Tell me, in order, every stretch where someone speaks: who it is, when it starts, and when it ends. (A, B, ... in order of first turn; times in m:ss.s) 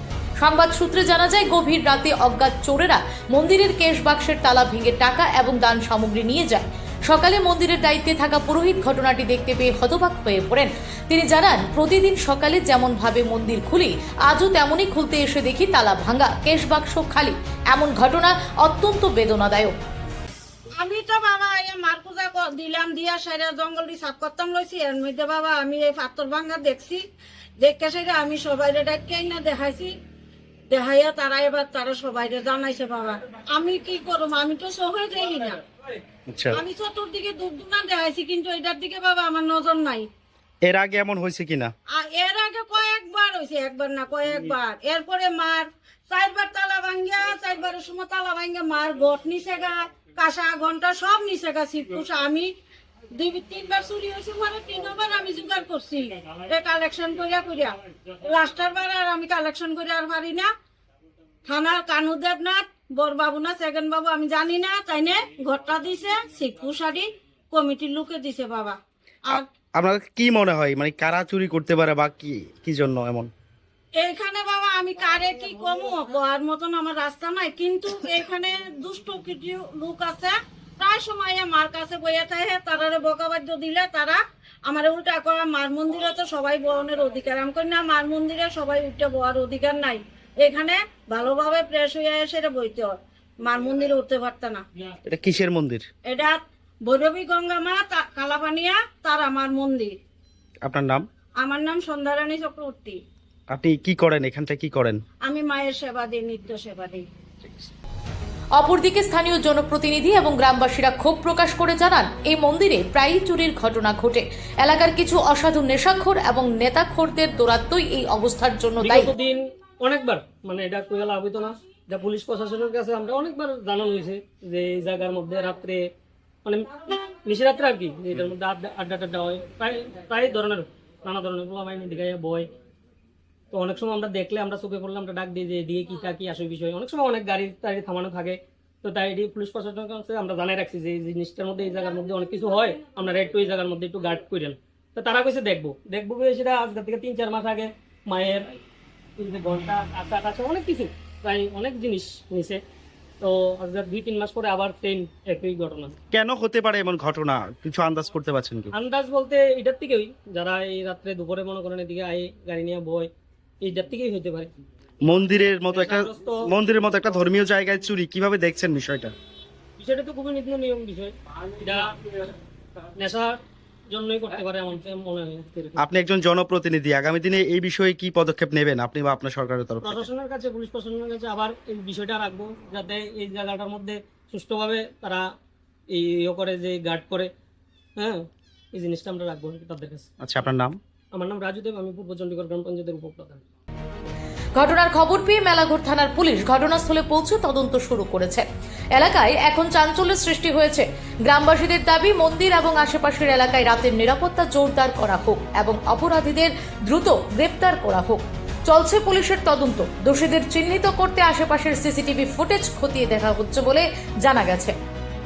0:00.4-0:19.8 A
0:20.7-0:27.0 B
0:27.6-0:29.9 B
0:30.7-0:35.6 B
0:36.3-0:36.6 C
0:36.5-0:40.0 B
0:40.6-0:41.7 C
0:41.9-0:52.5 B
0:53.1-1:00.5 B
1:01.4-1:09.4 B
1:09.3-1:13.3 C
1:14.0-1:34.6 B
1:35.0-1:35.8 C
1:36.0-1:39.9 B
1:40.6-1:41.0 C
1:41.4-1:43.0 B
1:43.5-1:45.0 C
1:45.2-1:47.0 B
1:48.5-1:59.1 A
1:58.8-2:05.9 D
2:06.4-2:12.5 D
2:13.5-2:28.6 D
2:29.2-2:32.6 D
2:33.2-2:36.0 D
2:36.1-2:38.7 C
2:38.7-2:43.1 D
2:43.6-2:44.5 D
2:45.0-2:49.1 C
2:45.7-2:46.4 D
2:49.8-2:52.3 D
2:52.9-2:53.4 D
2:53.9-2:55.8 D
2:55.8-3:00.1 C
2:59.8-3:05.2 D
3:05.9-3:07.3 D
3:08.0-3:10.1 D
3:10.2-3:10.8 C
3:11.1-3:13.4 D
3:14.5-3:34.7 A